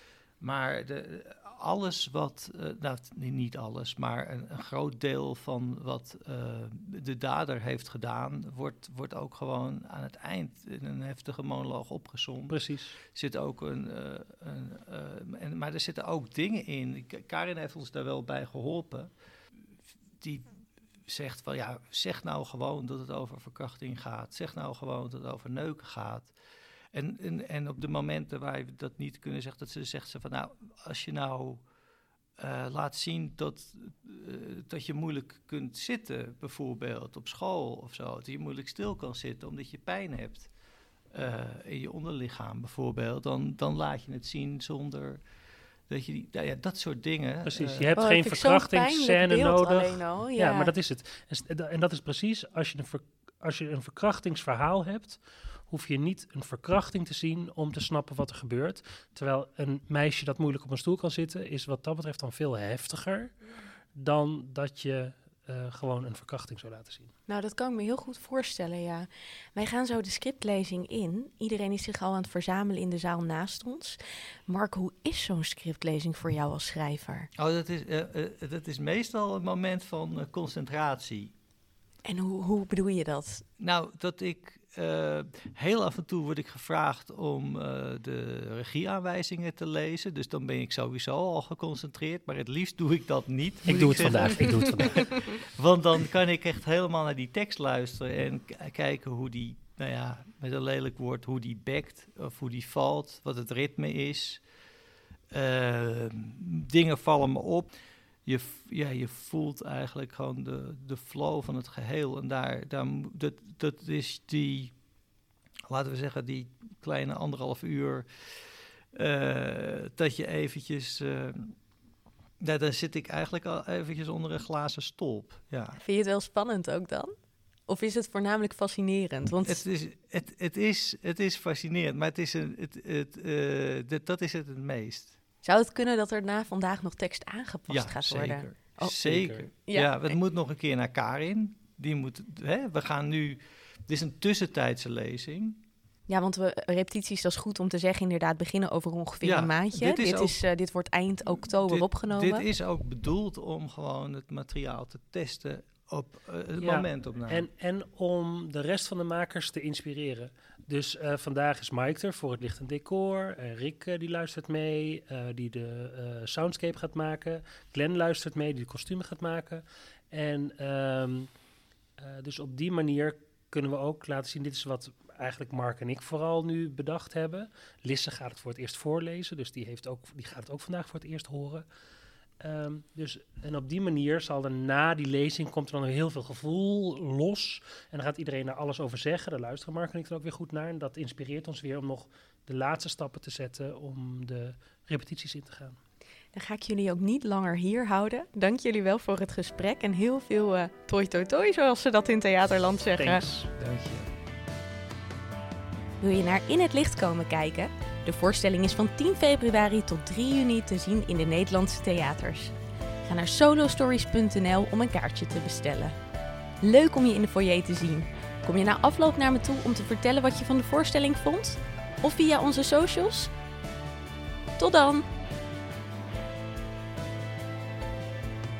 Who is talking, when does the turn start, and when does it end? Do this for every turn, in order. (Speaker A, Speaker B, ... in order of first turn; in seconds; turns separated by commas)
Speaker A: 0.4-19.1, Speaker B: 12.5-13.0, Speaker A: 20.2-20.5, Speaker A: 21.1-26.3, Speaker A: 26.9-31.6, Speaker A: 32.4-40.5, Speaker A: 41.1-45.2, Speaker A: 45.9-47.9, Speaker B: 47.4-63.3, Speaker C: 48.0-50.7, Speaker B: 63.9-67.1, Speaker C: 67.3-77.3, Speaker A: 77.4-81.3, Speaker C: 82.0-83.4, Speaker A: 83.6-104.4, Speaker B: 93.7-95.2, Speaker A: 105.3-107.7, Speaker A: 108.2-114.7, Speaker A: 115.7-121.5, Speaker A: 122.4-125.8, Speaker C: 125.8-127.1, Speaker C: 127.7-129.6, Speaker A: 129.4-135.1, Speaker C: 135.4-140.2, Speaker A: 137.7-145.6, Speaker C: 146.1-152.5, Speaker A: 149.2-150.4, Speaker A: 151.7-157.5, Speaker B: 156.6-171.3, Speaker B: 172.0-181.6, Speaker B: 182.4-195.8, Speaker C: 196.3-203.2, Speaker B: 203.0-203.5, Speaker A: 203.6-204.1, Speaker C: 206.0-215.9, Speaker C: 216.6-223.3, Speaker C: 224.6-225.1